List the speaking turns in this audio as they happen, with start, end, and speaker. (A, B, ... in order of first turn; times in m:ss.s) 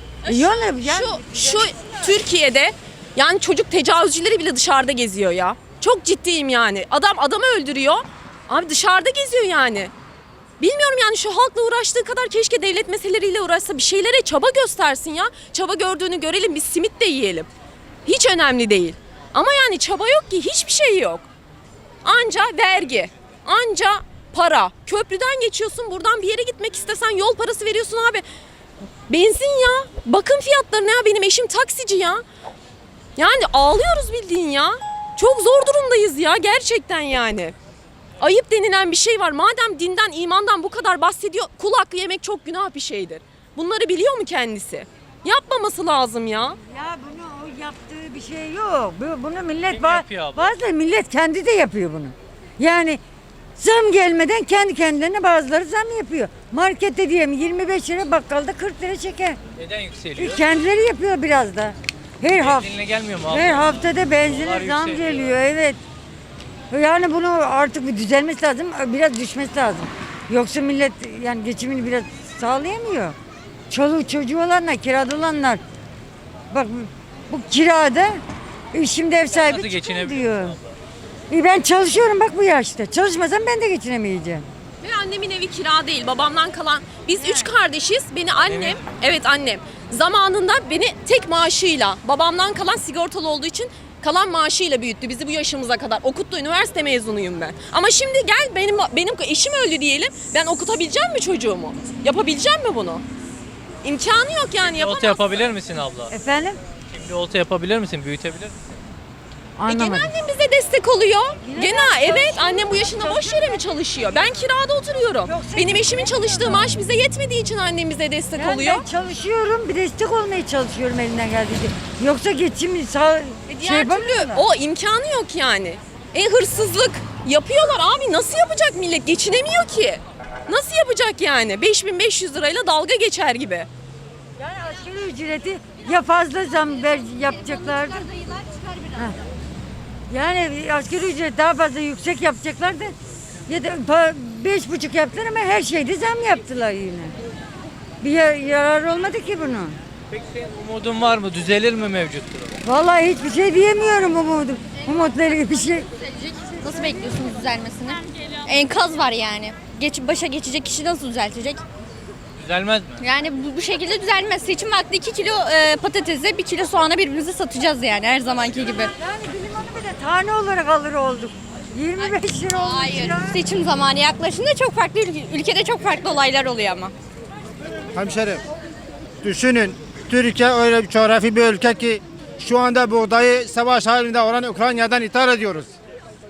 0:00.2-0:09.9 A
0:00.2-0:01.9 B
0:10.6-0:17.5 A
0:18.0-0:21.3 A
0:22.0-0:28.2 A
0:29.1-0:32.2 A
0:33.2-0:37.5 A
0:38.2-0:46.6 A
0:46.7-0:53.0 B
0:49.6-0:50.5 C
0:53.6-0:59.4 B
0:59.6-1:00.4 C
1:00.2-1:02.7 B
1:02.3-1:05.3 C
1:03.3-1:05.8 B
1:06.7-1:13.1 B
1:13.7-1:15.6 B
1:16.5-1:18.2 B
1:18.7-1:20.6 B
1:19.3-1:20.7 C
1:21.3-1:24.4 B
1:24.8-1:43.0 A
1:27.2-1:27.5 B
1:28.4-1:28.8 C
1:43.8-1:45.2 A
1:44.6-1:46.1 C
1:46.1-1:46.6 B
1:46.9-1:48.8 C
1:49.6-1:50.1 B
1:49.7-1:58.8 A
1:51.4-1:53.7 B
1:55.2-1:56.7 B
1:58.3-2:04.4 B
2:03.5-2:13.7 A
2:14.4-2:18.1 B
2:17.3-2:19.0 D
2:20.1-2:22.9 B
2:23.5-2:27.1 B
2:28.0-2:29.8 B
2:30.1-2:32.6 C
2:32.6-2:35.8 B
2:36.1-2:41.6 D
2:42.4-2:43.0 C
2:43.0-2:48.9 D
2:49.0-2:53.4 B
2:52.0-2:56.9 D
2:57.9-2:58.4 E
2:59.2-3:05.7 E